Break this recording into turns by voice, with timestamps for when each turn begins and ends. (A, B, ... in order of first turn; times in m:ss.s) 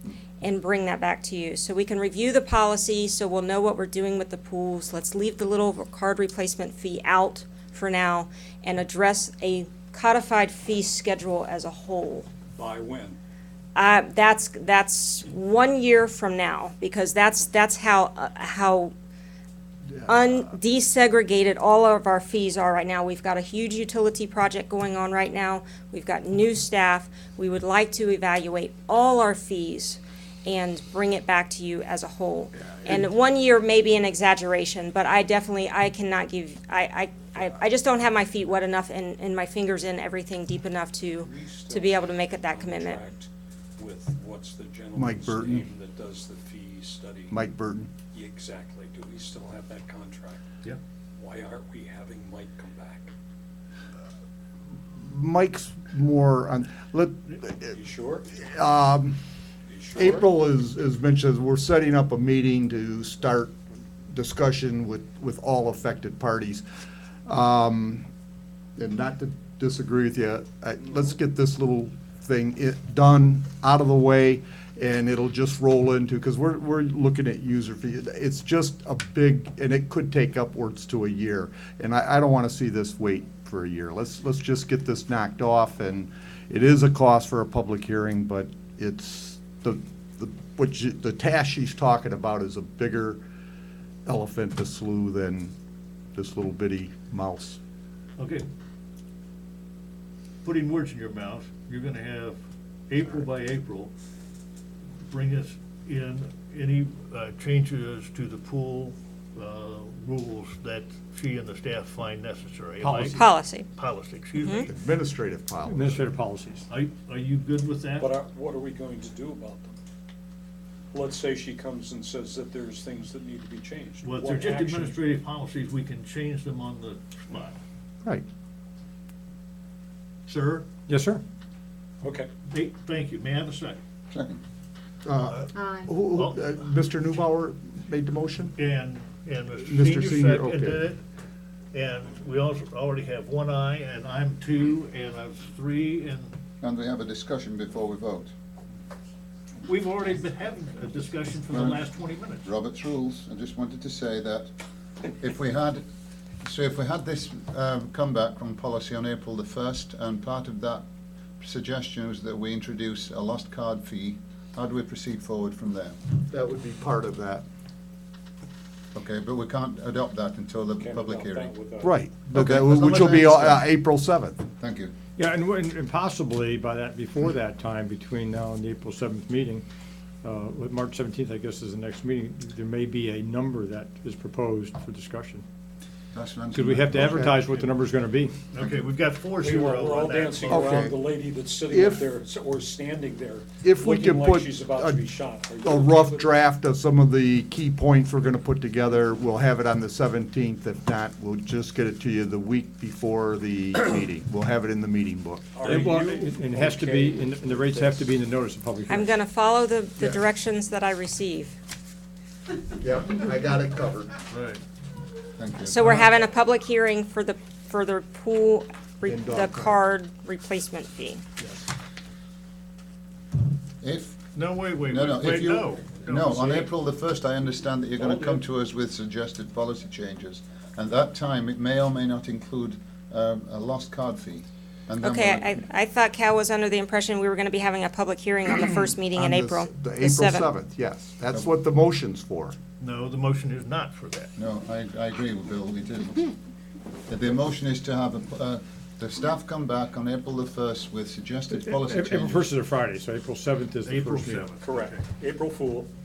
0:00.4-0:12.3 A
0:12.6-0:13.2 B
0:13.8-0:18.9 A
0:20.1-0:43.0 A
0:41.2-0:47.4 B
0:45.0-0:45.7 C
0:47.3-0:47.9 C
0:48.1-0:50.4 B
0:51.2-0:53.1 B
0:54.9-0:57.8 C
0:57.7-0:58.3 B
0:58.4-0:59.2 C
0:59.7-1:00.3 B
1:00.0-1:03.6 C
1:04.1-1:06.6 C
1:07.3-1:08.1 C
1:08.8-1:33.2 C
1:34.1-1:35.6 C
1:36.2-1:37.6 C
1:38.2-1:38.5 D
1:40.4-1:43.9 D
1:45.1-1:54.7 D
1:52.9-1:53.2 C
1:53.2-1:53.7 A
1:54.4-1:54.7 A
1:54.7-1:56.0 C
1:55.6-1:56.7 E
1:56.7-1:58.1 D
1:58.0-1:59.8 B
2:00.9-2:05.0 B
2:04.0-2:07.6 D
2:10.3-2:10.7 D
2:10.9-2:11.2 E
2:12.0-2:12.3 B
2:12.5-2:13.8 D
2:14.1-2:14.4 F
2:15.0-2:18.6 C
2:15.2-2:15.5 D
2:16.0-2:16.5 D
2:18.6-2:21.0 D
2:19.6-2:20.9 C
2:21.7-2:26.4 D
2:26.6-2:28.3 F
2:29.6-2:32.5 D
2:31.5-2:31.8 F
2:32.4-2:34.5 F
2:35.0-2:35.8 F
2:36.4-2:40.8 F
2:41.4-2:46.0 F
2:46.3-2:47.4 C
2:48.9-2:51.5 F
2:50.8-2:52.0 B
2:51.8-2:54.5 C
2:52.3-2:53.7 F
2:54.6-2:54.9 F
2:55.2-2:59.6 E
3:00.2-3:05.4 E
3:06.1-3:07.3 F
3:06.5-3:08.4 E
3:07.0-3:07.4 C
3:08.5-3:10.8 D
3:09.4-3:16.4 B
3:10.5-3:11.0 C
3:11.7-3:12.1 C
3:13.6-3:15.1 C
3:15.6-3:25.6 C
3:25.6-3:28.0 B
3:25.6-3:29.1 E
3:28.9-3:31.6 A
3:32.8-3:34.2 C
3:34.3-3:34.6 D
3:35.4-3:35.8 F
3:35.6-3:41.2 A
3:39.0-3:39.8 C
3:43.8-3:44.2 F
3:44.3-3:46.7 D
3:44.9-3:55.5 F
3:48.0-3:48.4 D
3:55.0-4:00.5 A
3:59.1-4:02.6 C
4:02.8-4:04.3 D
4:04.4-4:06.3 F
4:07.1-4:12.5 F
4:11.5-4:14.5 E
4:13.8-4:15.0 D
4:14.6-4:15.9 B